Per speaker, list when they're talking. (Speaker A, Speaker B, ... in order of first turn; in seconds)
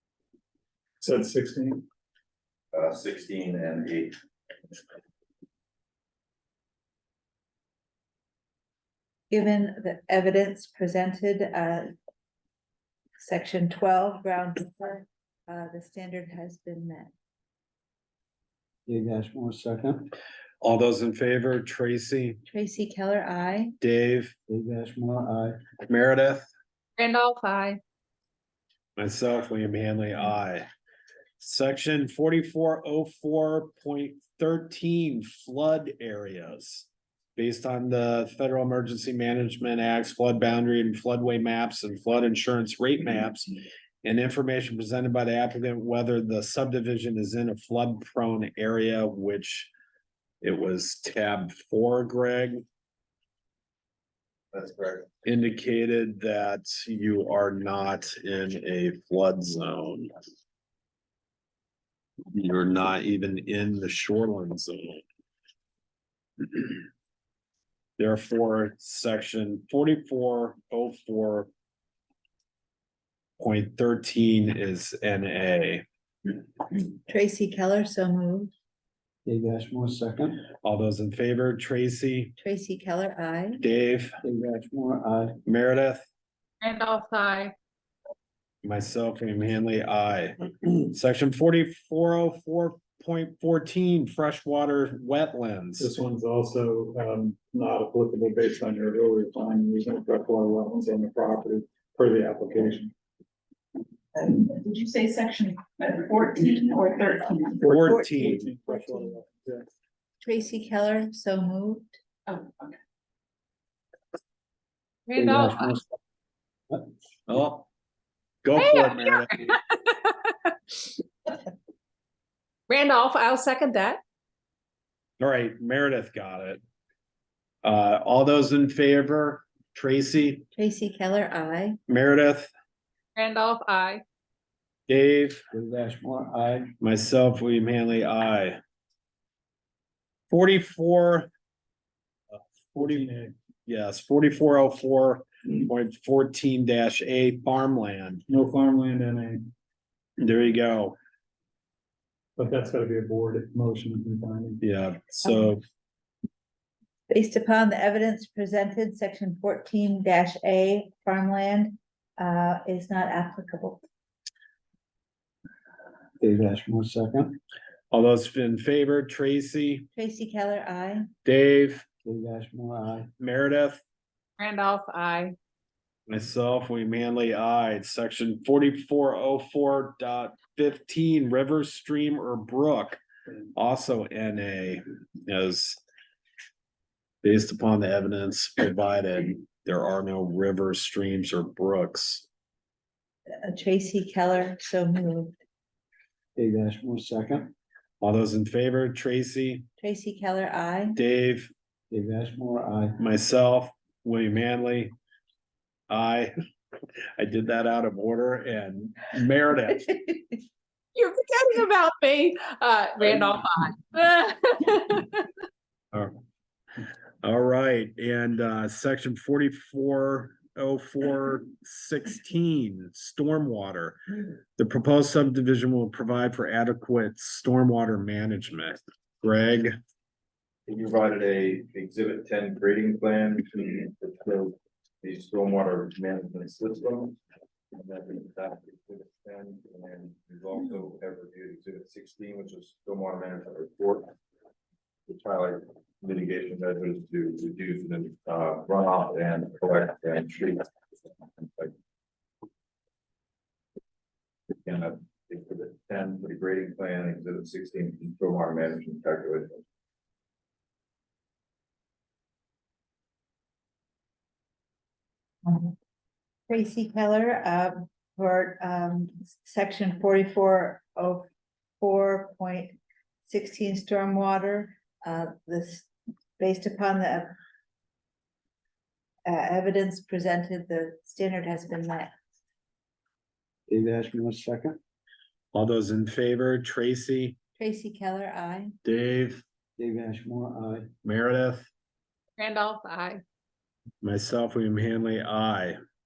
Speaker A: 1.0-1.8, 95.8-102.9, 107.6-109.7, 142.7-143.3, 148.3-149.5, 152.4-154.6
Speaker B: 2.7-4.1, 54.5-55.0, 230.7-237.2, 237.7-244.1, 245.1-250.7, 251.2-251.7, 254.5-259.6
Speaker C: 9.3-11.9, 13.2-17.1, 22.4-23.7, 77.1-78.5, 82.4-83.6, 107.8-109.0, 110.2-112.0, 130.5-131.8, 157.1-163.8, 169.9-171.0, 193.4-195.3, 199.8-201.0, 265.4-265.7, 266.5-271.2, 271.8-277.3, 279.2-282.1, 287.6-288.8
Speaker D: 18.9-20.1, 24.5-25.6, 79.2-80.4, 84.2-85.3, 115.2-116.0, 135.5-136.7, 166.2-167.4, 172.0-173.1, 196.3-197.5, 201.9-203.0, 283.7-284.8, 289.8-290.9
Speaker E: 20.6-22.4, 23.8-24.3, 25.9-26.5, 28.9-30.6, 31.4-43.5, 44.0-49.7, 50.4-52.6, 55.2-60.1, 62.3-65.0, 66.4-66.8, 68.0-71.5, 73.4-75.8, 80.6-82.3, 83.6-84.2, 85.4-86.1, 88.6-95.9, 107.6-108.4, 117.3-117.7, 118.4-119.4, 125.2-126.6, 127.6-130.5, 131.9-132.5, 134.9-135.4, 136.8-138.6, 140.3-141.3, 142.8-143.1, 143.7-148.2, 150.2-151.0, 154.6-155.6, 167.9-169.8, 171.2-171.8, 173.2-173.8, 176.1-183.0, 183.5-185.8, 187.2-192.2, 198.0-199.7, 200.9-201.5, 203.0-204.9, 205.9-206.3, 207.2-210.0, 217.2-229.7, 285.5-287.4, 288.8-289.4, 291.0-291.7, 294.0-295.8
Speaker F: 27.0-27.8, 86.6-87.5, 115.1-115.7, 118.5-121.0, 122.7-124.0, 133.1-134.0, 174.4-175.3, 210.9-215.2, 292.4-293.2
Speaker G: 104.1-107.6, 112.3-112.7